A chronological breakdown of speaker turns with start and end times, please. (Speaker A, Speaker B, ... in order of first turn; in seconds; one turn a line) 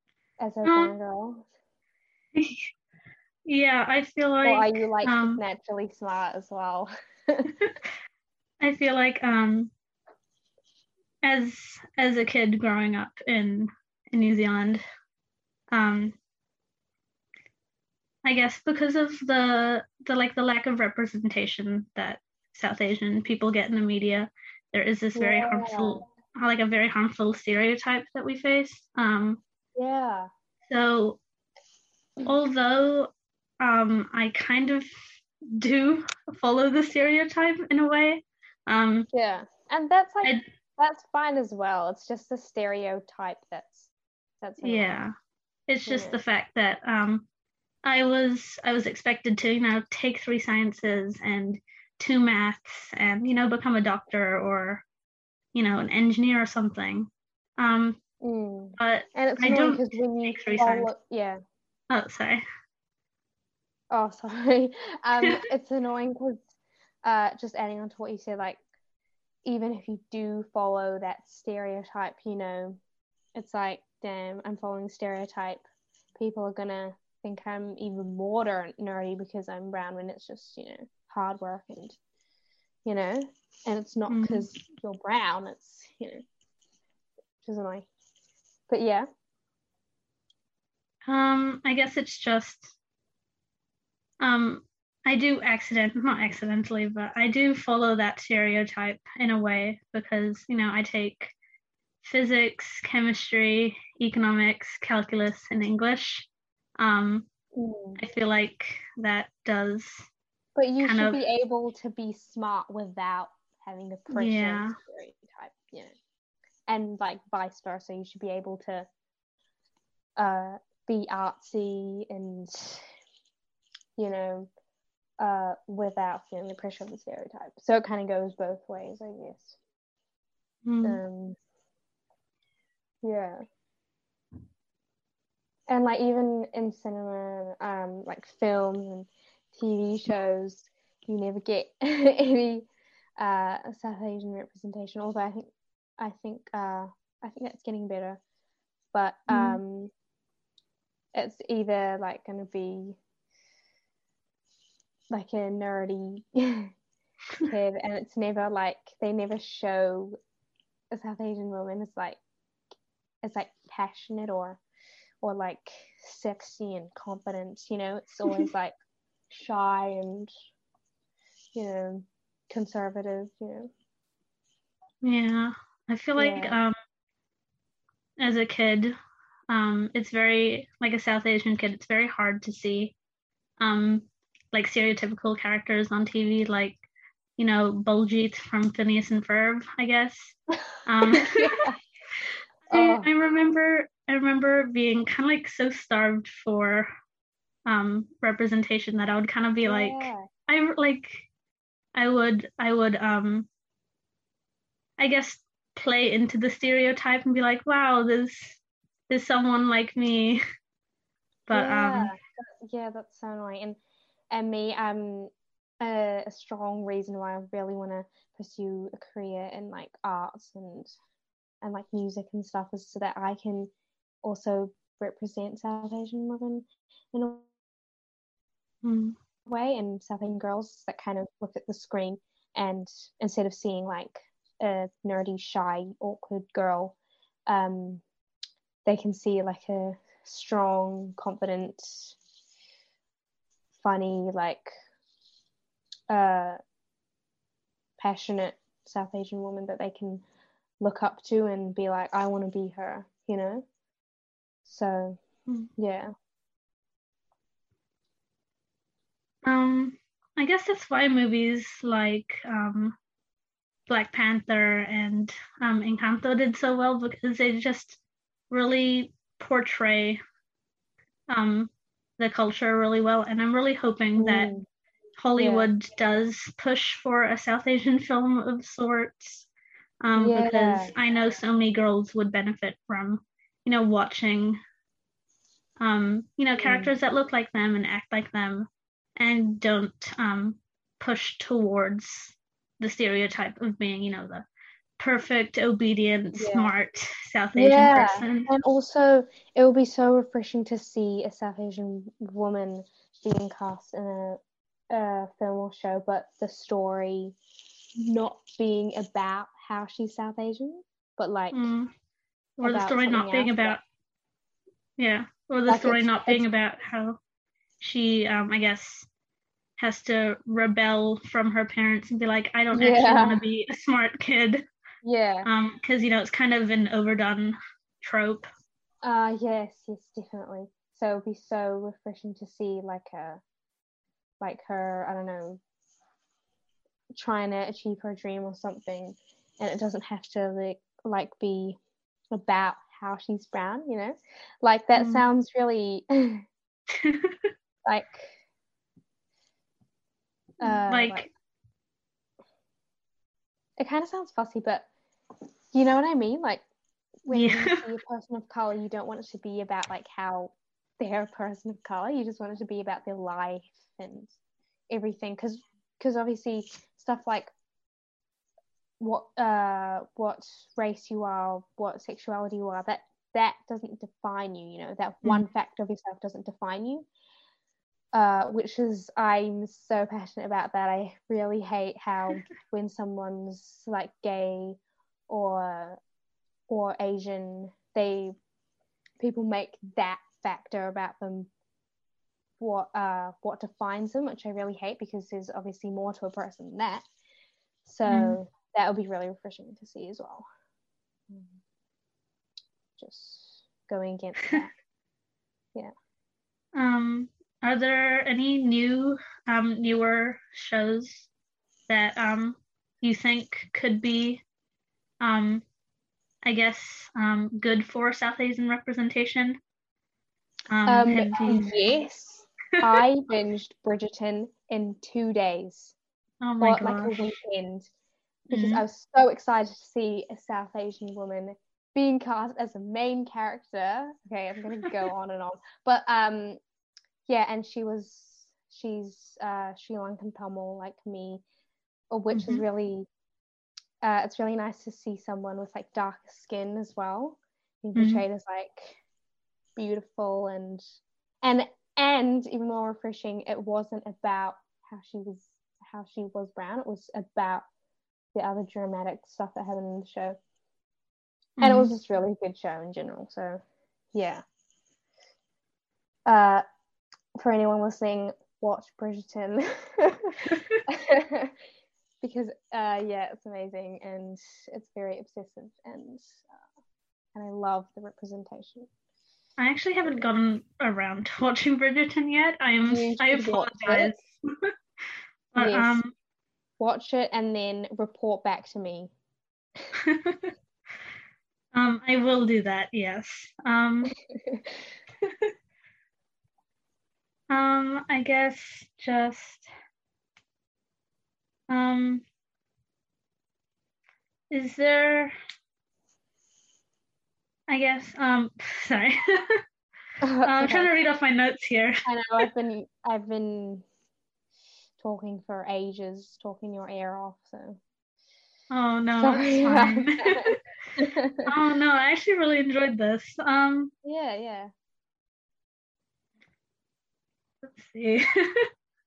Speaker A: 0.4-1.5
Speaker B: 0.6-0.9
Speaker B: 2.4-2.7
Speaker B: 3.5-5.4
Speaker A: 4.4-7.5
Speaker B: 8.6-9.7
Speaker B: 11.2-14.8
Speaker B: 15.7-16.2
Speaker B: 18.2-29.4
Speaker A: 25.2-26.0
Speaker A: 29.8-30.3
Speaker B: 30.7-31.2
Speaker B: 32.2-34.9
Speaker B: 35.4-39.1
Speaker A: 39.1-45.0
Speaker B: 44.6-45.1
Speaker B: 45.7-47.3
Speaker A: 45.9-46.2
Speaker B: 47.8-54.8
Speaker B: 55.5-58.0
Speaker A: 58.2-61.4
Speaker B: 58.8-60.9
Speaker B: 61.9-62.4
Speaker A: 63.9-66.4
Speaker A: 67.0-68.6
Speaker A: 69.5-72.8
Speaker A: 73.3-75.6
Speaker A: 76.2-82.0
Speaker A: 82.8-86.2
Speaker B: 84.1-84.5
Speaker A: 87.4-87.9
Speaker A: 88.7-89.1
Speaker B: 91.1-92.7
Speaker B: 94.2-101.3
Speaker B: 102.0-106.3
Speaker B: 106.8-107.3
Speaker A: 107.5-108.0
Speaker B: 108.0-110.1
Speaker A: 110.6-115.9
Speaker B: 110.8-111.2
Speaker B: 114.1-114.8
Speaker A: 116.7-118.9
Speaker A: 120.2-122.9
Speaker A: 124.0-124.5
Speaker A: 125.2-129.6
Speaker B: 130.7-131.0
Speaker A: 130.8-131.4
Speaker A: 133.0-133.4
Speaker A: 135.7-142.7
Speaker A: 143.2-148.2
Speaker A: 148.9-149.9
Speaker B: 149.3-149.6
Speaker A: 151.1-153.0
Speaker A: 155.1-156.7
Speaker A: 157.4-160.2
Speaker A: 160.9-162.2
Speaker A: 163.2-164.6
Speaker A: 165.2-168.7
Speaker A: 169.3-170.3
Speaker A: 171.5-173.7
Speaker B: 175.0-176.8
Speaker A: 176.2-176.6
Speaker B: 178.2-178.9
Speaker B: 179.5-182.9
Speaker B: 183.6-186.8
Speaker B: 187.4-191.7
Speaker A: 191.1-191.8
Speaker B: 192.7-196.9
Speaker A: 192.7-193.1
Speaker B: 197.7-201.3
Speaker A: 199.7-200.3
Speaker B: 201.9-203.5
Speaker B: 205.0-208.6
Speaker B: 209.1-210.4
Speaker B: 211.5-212.1
Speaker A: 211.5-213.8
Speaker A: 214.3-220.9
Speaker A: 221.6-223.7
Speaker A: 224.2-227.5
Speaker B: 228.8-229.2
Speaker A: 229.5-237.0
Speaker A: 237.5-238.0
Speaker A: 238.8-242.2
Speaker A: 243.8-244.7
Speaker A: 246.1-246.6
Speaker A: 248.0-250.2
Speaker A: 250.8-253.7
Speaker A: 254.7-255.2
Speaker A: 255.8-256.1
Speaker B: 259.4-263.0
Speaker B: 263.9-268.0
Speaker B: 268.5-270.2
Speaker B: 271.3-274.5
Speaker A: 274.2-274.7
Speaker B: 275.2-279.5
Speaker A: 275.4-275.7
Speaker B: 280.0-284.6
Speaker A: 280.2-280.9
Speaker B: 285.8-294.5
Speaker A: 286.6-286.9
Speaker B: 295.0-298.5
Speaker A: 296.3-296.7
Speaker A: 297.6-307.4
Speaker A: 308.0-311.7
Speaker B: 311.5-311.9
Speaker B: 312.6-313.8
Speaker A: 312.6-313.8
Speaker B: 315.0-317.2
Speaker A: 315.7-316.4
Speaker B: 317.8-319.1
Speaker B: 319.8-324.6
Speaker A: 322.7-323.5
Speaker A: 325.0-325.5
Speaker B: 325.4-328.5
Speaker A: 329.0-333.4
Speaker A: 334.4-335.6
Speaker A: 337.1-341.8
Speaker A: 342.3-346.4
Speaker B: 344.9-345.3
Speaker B: 346.9-347.5
Speaker A: 347.9-348.4
Speaker A: 350.6-351.3
Speaker B: 350.6-351.3
Speaker A: 353.8-354.9
Speaker A: 355.7-356.6
Speaker A: 357.2-364.4
Speaker B: 357.3-357.8
Speaker A: 364.9-367.5
Speaker A: 369.0-377.1
Speaker A: 378.1-386.0
Speaker A: 386.7-388.4
Speaker A: 389.2-391.5
Speaker A: 392.6-397.1
Speaker A: 397.9-400.5
Speaker B: 398.1-398.4
Speaker A: 401.3-401.6
Speaker A: 403.0-404.7
Speaker B: 406.8-411.3
Speaker B: 411.9-414.4
Speaker B: 415.2-415.6
Speaker B: 416.4-419.6
Speaker B: 420.7-421.8
Speaker A: 420.9-425.9
Speaker B: 426.4-427.4
Speaker A: 426.6-427.9
Speaker B: 428.5-428.9
Speaker A: 428.5-436.6
Speaker A: 437.3-441.4
Speaker A: 442.1-443.1
Speaker B: 442.3-442.6
Speaker A: 444.0-449.0
Speaker B: 448.0-448.2
Speaker A: 449.8-457.7
Speaker A: 458.4-460.4
Speaker B: 461.6-461.9
Speaker A: 461.6-463.6
Speaker A: 464.1-464.4
Speaker A: 466.3-466.6
Speaker A: 467.4-471.6
Speaker B: 470.5-470.8
Speaker A: 472.2-476.5
Speaker A: 477.4-478.9
Speaker B: 479.6-484.7
Speaker A: 482.9-484.1
Speaker B: 485.5-486.1
Speaker A: 485.6-486.0
Speaker A: 486.8-489.1
Speaker B: 490.0-490.5
Speaker B: 491.7-494.2
Speaker A: 494.4-494.7
Speaker B: 495.2-495.5
Speaker B: 497.5-499.7
Speaker B: 501.7-502.2
Speaker B: 504.5-505.3
Speaker B: 507.7-509.6
Speaker A: 510.2-510.9
Speaker B: 510.4-512.1
Speaker A: 512.1-513.9
Speaker A: 515.0-517.8
Speaker B: 518.7-520.6
Speaker A: 519.2-521.5
Speaker B: 521.4-523.9
Speaker A: 524.0-524.7
Speaker B: 527.6-528.7